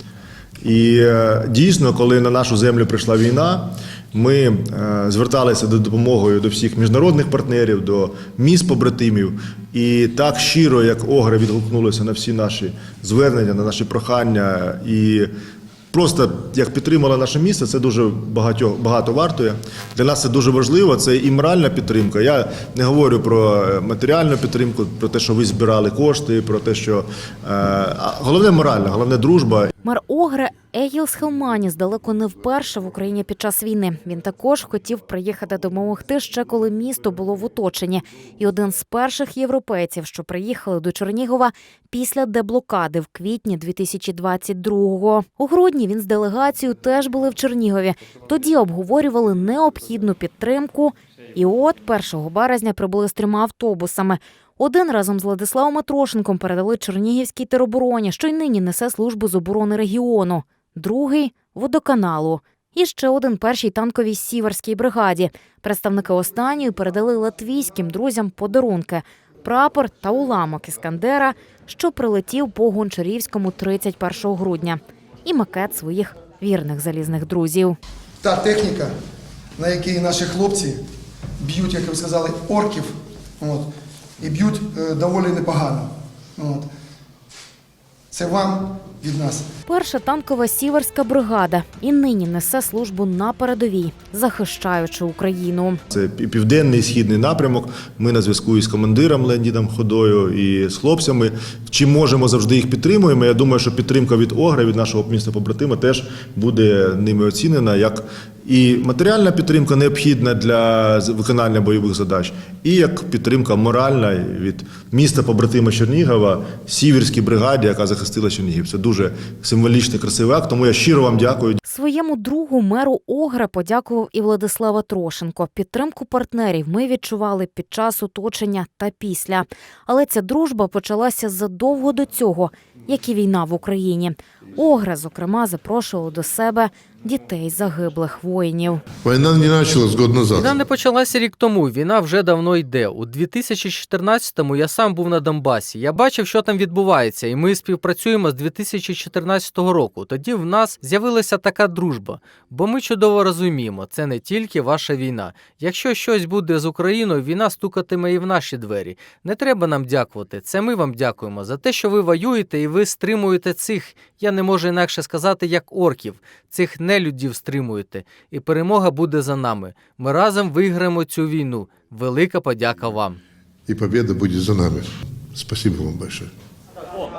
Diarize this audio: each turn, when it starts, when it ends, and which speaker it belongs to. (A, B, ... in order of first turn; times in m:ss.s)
0:00.6-0:15.3 A
0:15.9-0:29.7 A
0:29.8-1:17.8 B
1:18.2-1:18.9 C
1:19.6-1:20.8 C
1:21.4-1:23.7 C
1:24.2-1:26.7 C
1:28.1-1:29.4 C
1:29.7-1:35.8 B
1:35.9-2:01.6 A
2:01.6-2:18.8 B
2:19.0-2:20.6 D
2:20.4-2:53.2 E
2:53.7-2:56.3 D